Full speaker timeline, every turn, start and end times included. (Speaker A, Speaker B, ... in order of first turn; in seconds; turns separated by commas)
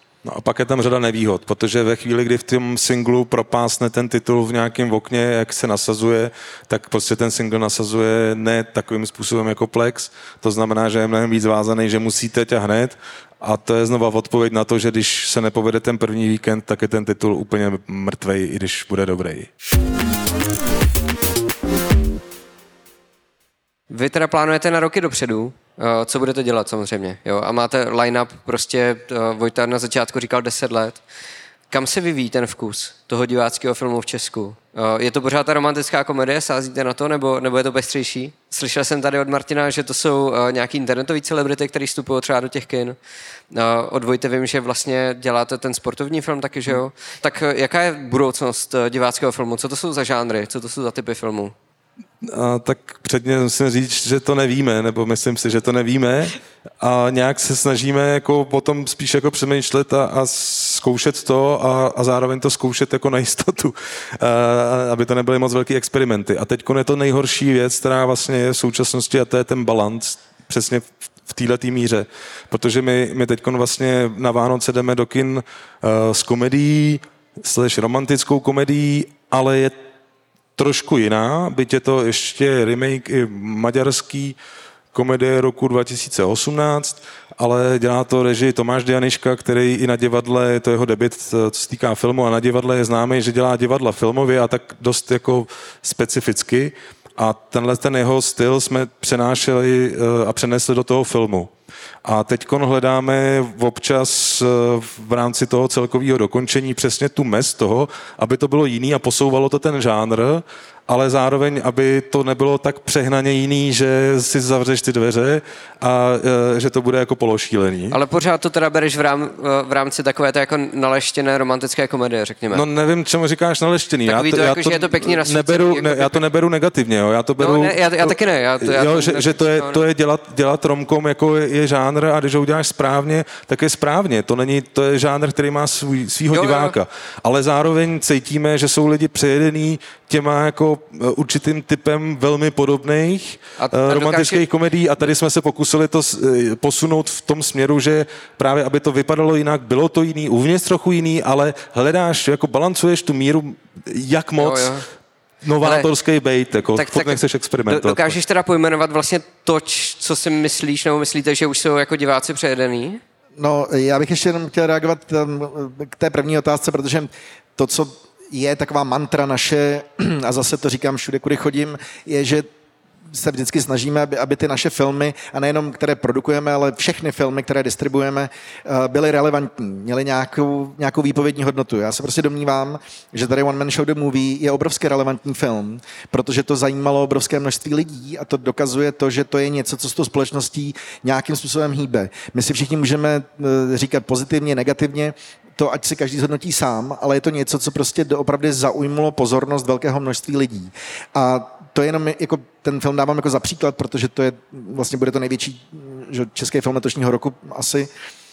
Speaker A: 0.2-19.5, Speaker B: 23.9-31.0, Speaker B: 31.7-43.0, Speaker B: 43.5-51.5, Speaker A: 52.2-79.8, Speaker A: 80.6-84.3, Speaker A: 84.9-101.5, Speaker A: 102.0-118.0, Speaker B: 117.9-122.6, Speaker A: 122.5-154.8, Speaker B: 124.1-126.2, Speaker B: 127.4-129.8, Speaker B: 136.3-136.8, Speaker B: 143.6-144.4, Speaker B: 154.4-154.9, Speaker A: 155.4-158.2, Speaker B: 155.6-155.9, Speaker B: 156.8-163.0, Speaker C: 163.4-172.5, Speaker C: 173.1-207.9